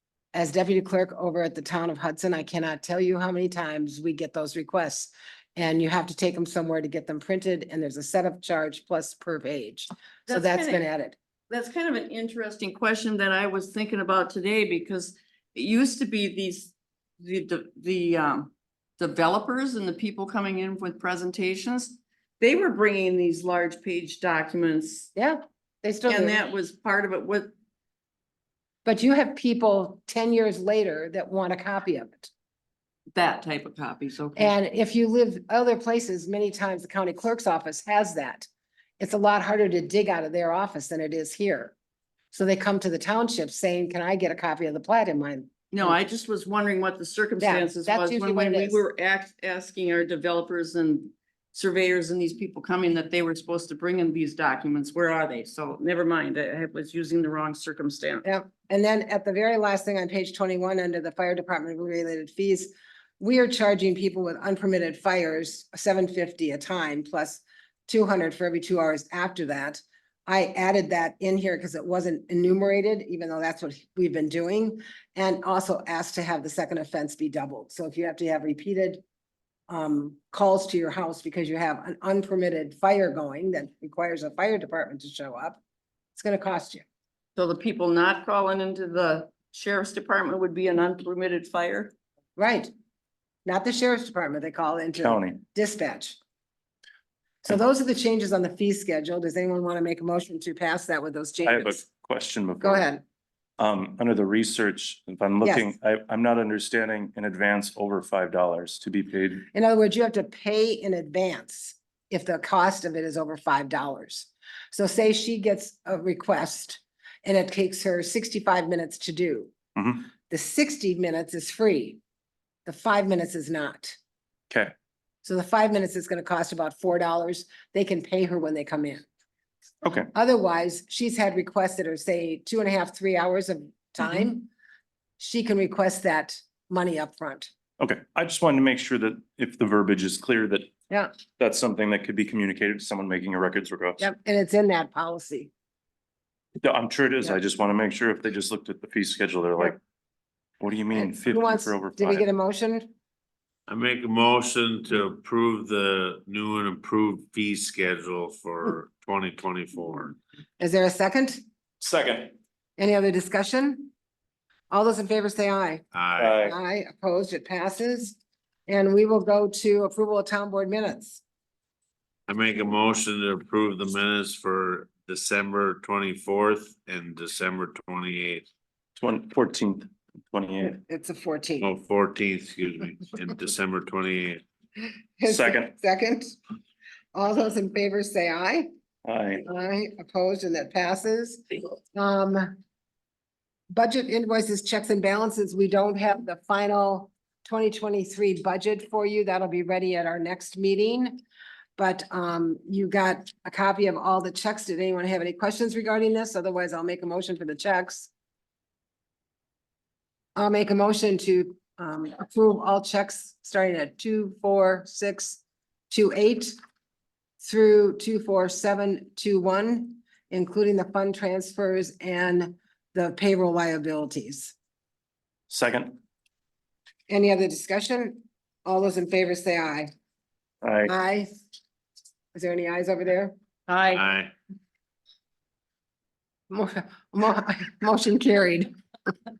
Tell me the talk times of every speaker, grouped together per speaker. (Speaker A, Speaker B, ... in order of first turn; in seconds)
Speaker A: 0.3-11.2, 25.2-26.4, 28.9-32.3, 34.4-38.5, 39.0-41.7, 42.3-45.9, 47.4-48.8, 58.2-79.0, 79.7-85.6, 86.1-86.8, 92.4-92.7, 93.5-96.2, 97.4-101.8, 102.6-103.0, 105.4-105.7, 109.5-119.5, 120.3-122.0, 122.7-124.0, 125.2-129.1, 130.1-134.5, 135.2-137.5, 144.0-145.5, 150.9-152.9, 160.6-161.4, 162.8-163.9, 164.7-165.8, 166.4-171.2, 180.7-181.7, 185.2-186.4, 187.2-188.7, 189.4-192.5, 193.7-201.2, 201.8-208.1, 210.4-216.6, 217.4-224.6, 227.1-229.9, 230.9-231.3, 232.3-233.3, 236.5-238.8
Speaker B: 10.3-10.8, 11.5-25.1, 26.1-27.5, 33.1-34.5, 45.7-58.2, 87.4-91.9
Speaker C: 95.0-95.4, 101.4-102.9, 103.6-109.5, 119.8-120.0, 129.8-130.1, 137.8-140.7, 141.4-144.1, 146.6-149.8, 150.6-152.2, 161.8-162.3, 166.2-166.6, 179.0-180.8, 185.2-185.7, 189.1-189.5, 225.5-226.0, 230.6-230.9
Speaker D: 153.7-160.2, 165.9-166.4, 172.3-178.5, 181.6-184.4, 233.8-234.3